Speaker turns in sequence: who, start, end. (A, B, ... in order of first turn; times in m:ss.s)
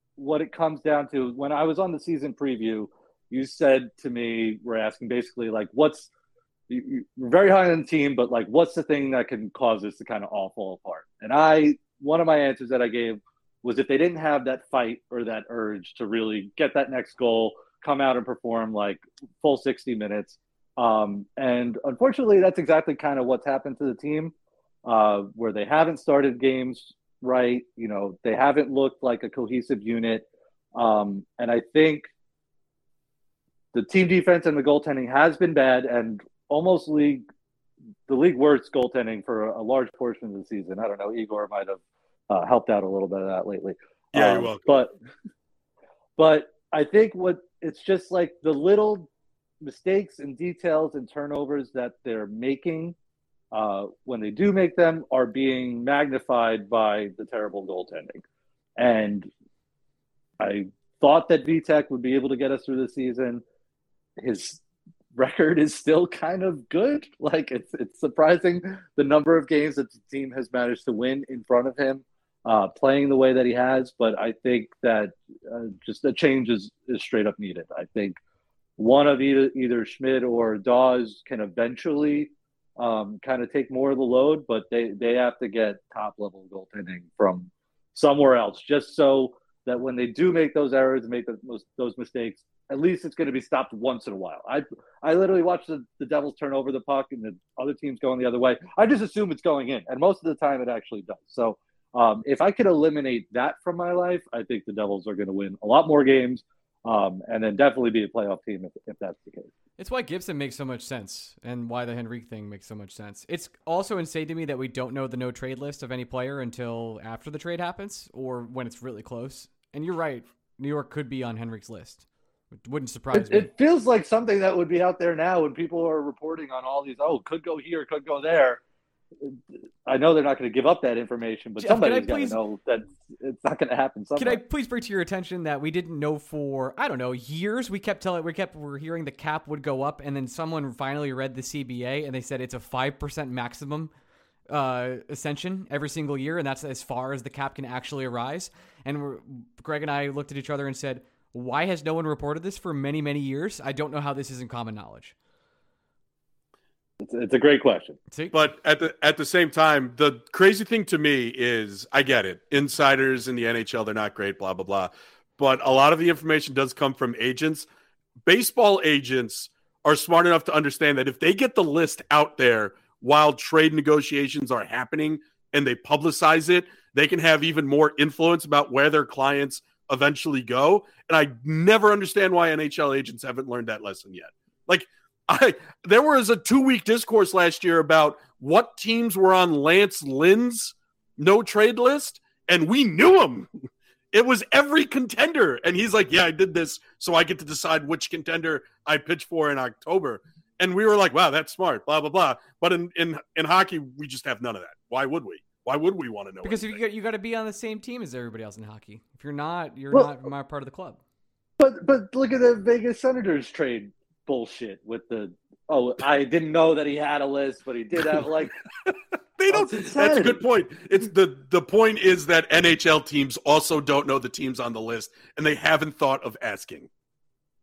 0:00.2-0:06.1 A
0:06.7-0:24.3 A
0:24.8-0:32.1 A
0:33.7-0:37.2 A
0:38.1-0:44.9 A
0:44.1-0:44.7 B
0:46.2-0:49.1 A
0:49.6-0:52.9 A
0:53.5-0:58.2 A
0:58.8-0:59.3 A
1:00.4-1:03.4 A
1:04.2-1:04.6 A
1:05.1-1:18.2 A
1:18.8-1:49.5 A
1:49.8-2:02.0 C
2:02.6-2:03.5 C
2:03.1-2:08.6 A
2:09.2-2:14.4 A
2:11.6-2:12.4 C
2:14.2-2:23.9 C
2:24.5-2:35.1 C
2:37.0-2:38.0 A
2:38.3-2:47.7 B
2:48.2-3:13.6 B
3:14.1-3:26.8 B
3:26.4-3:31.0 C
3:31.6-3:38.6 A
3:38.8-3:46.9 B
3:39.5-3:40.4 A